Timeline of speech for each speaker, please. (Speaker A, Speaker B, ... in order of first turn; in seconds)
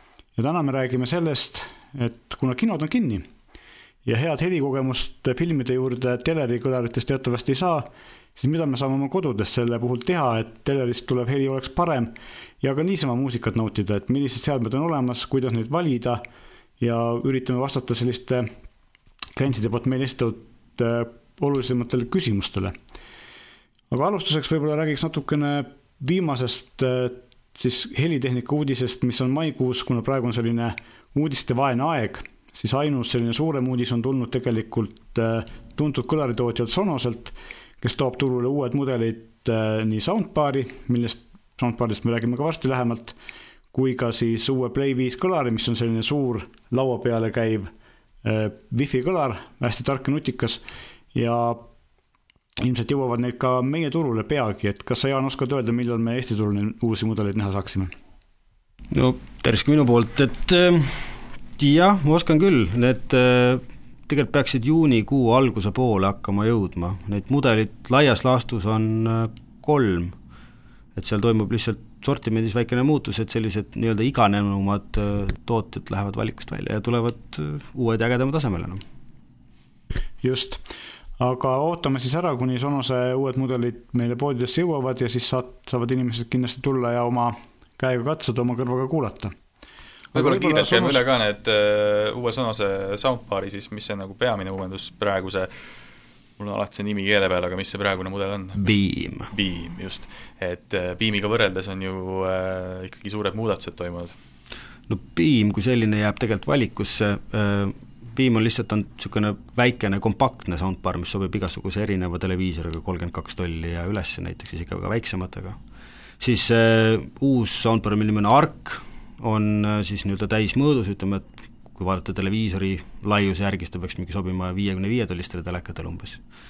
Speaker A: 0.3-3.3, 4.0-16.2, 16.8-18.5, 19.4-22.7, 23.9-43.1, 43.7-47.7, 48.2-51.7, 52.6-57.9, 80.2-80.6, 81.2-89.3, 90.1-91.0
Speaker B: 58.9-70.2, 70.9-78.8, 98.6-99.3, 104.9-115.6, 116.2-126.2
Speaker C: 90.1-95.5, 96.4-98.8, 99.3-104.1